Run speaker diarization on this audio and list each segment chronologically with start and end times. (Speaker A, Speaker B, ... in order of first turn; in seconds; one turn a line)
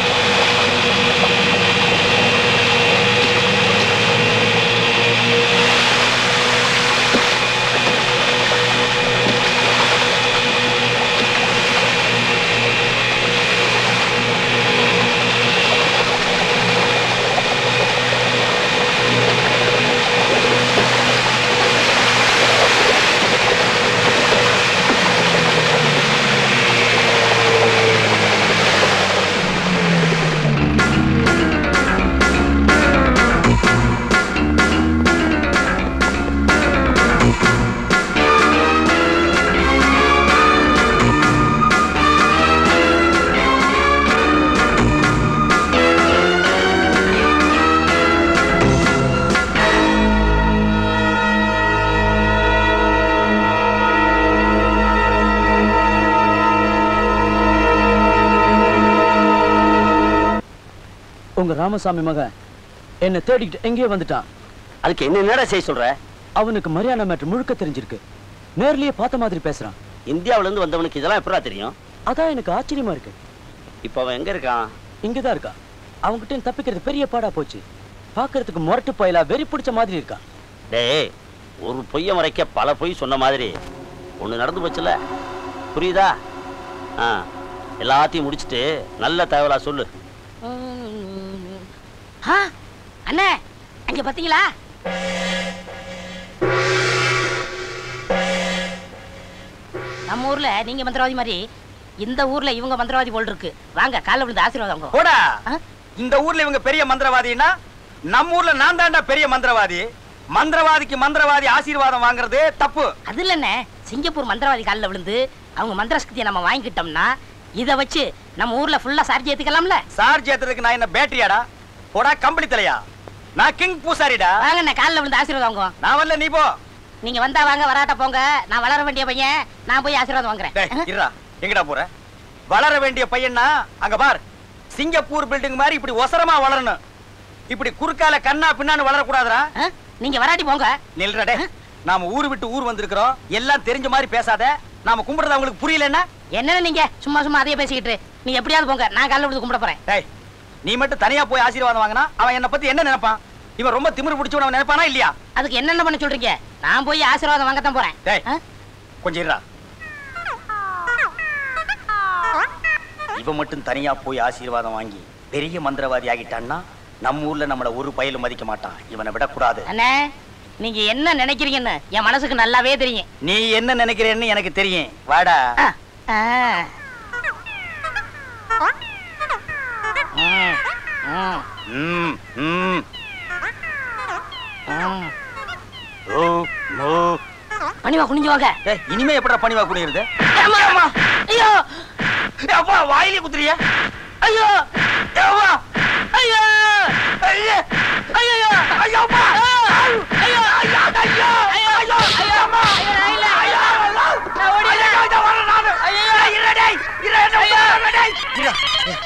Speaker A: 61.4-62.3
Speaker A: 63.0-64.2
Speaker B: 64.8-66.0
Speaker A: 66.4-68.0
Speaker A: 68.6-69.8
Speaker B: 70.1-71.7
Speaker A: 72.1-73.2
Speaker B: 73.8-74.7
Speaker A: 75.0-75.5
Speaker A: 76.1-77.6
Speaker A: 78.2-80.2
Speaker B: 80.7-81.1
Speaker B: 81.7-83.5
Speaker B: 84.2-84.9
Speaker B: 85.7-86.1
Speaker B: 87.8-89.9
Speaker C: 90.4-91.7
Speaker C: 93.1-93.3
Speaker C: 93.9-94.4
Speaker C: 100.1-101.4
Speaker C: 102.0-105.0
Speaker D: 104.9-105.2
Speaker D: 106.0-107.5
Speaker D: 108.1-112.9
Speaker C: 113.1-119.8
Speaker D: 119.9-121.4
Speaker D: 122.0-122.8
Speaker D: 123.4-124.4
Speaker C: 124.4-125.7
Speaker D: 125.8-126.5
Speaker C: 127.0-130.8
Speaker D: 130.6-131.9
Speaker D: 132.5-134.2
Speaker D: 134.7-136.8
Speaker D: 137.5-139.5
Speaker C: 139.6-140.8
Speaker D: 141.0-146.1
Speaker C: 146.3-149.8
Speaker D: 150.7-155.1
Speaker C: 155.4-158.4
Speaker D: 159.0-159.4
Speaker D: 163.1-169.7
Speaker C: 169.7-170.0
Speaker C: 170.6-173.1
Speaker D: 173.2-175.4
Speaker C: 175.6-176.7
Speaker C: 180.2-180.5
Speaker C: 181.1-181.4
Speaker D: 181.7-182.8
Speaker D: 184.7-185.1
Speaker D: 186.1-187.2
Speaker C: 187.8-188.5
Speaker D: 188.7-190.9
Speaker C: 190.3-191.6
Speaker D: 192.4-193.6
Speaker C: 194.2-194.5
Speaker D: 195.2-195.6
Speaker D: 196.2-197.6
Speaker D: 198.2-199.4
Speaker D: 200.2-208.6
Speaker C: 201.5-203.7
Speaker C: 204.4-205.0